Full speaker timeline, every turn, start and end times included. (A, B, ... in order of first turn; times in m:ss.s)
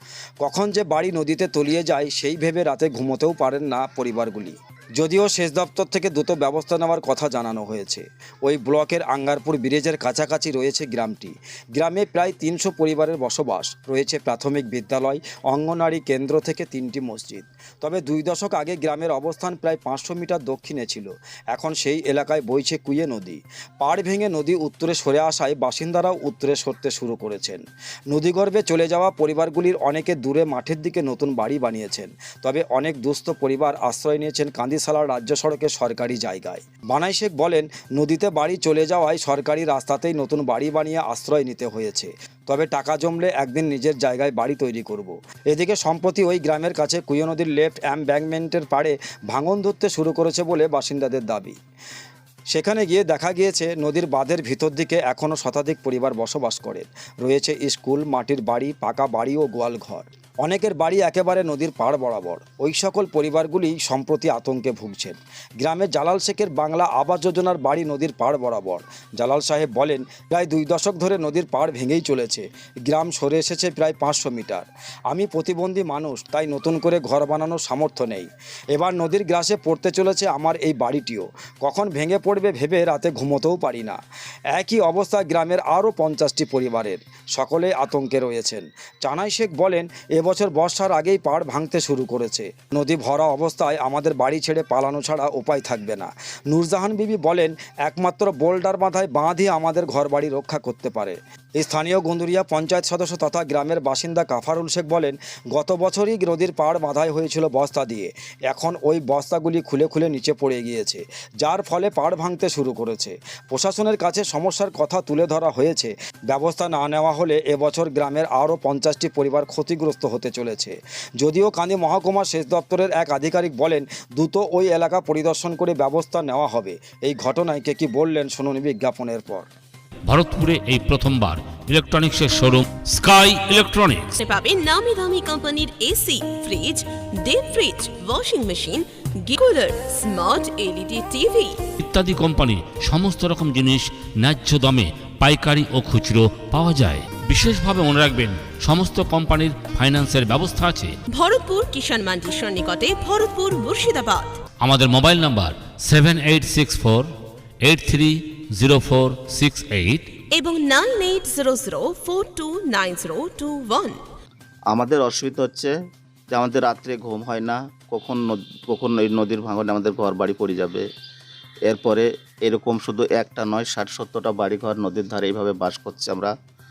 0:00.4-0:51.6 A
0:52.5-1:24.0 A
1:24.5-2:09.5 A
2:10.1-2:14.2 B
2:14.2-2:21.6 C
2:21.8-2:30.9 B
2:31.1-2:34.4 C
2:34.6-2:37.1 B
2:37.6-2:40.1 B
2:40.3-2:44.0 C
2:44.7-2:45.7 D
2:46.3-2:50.8 D
2:51.7-2:56.3 D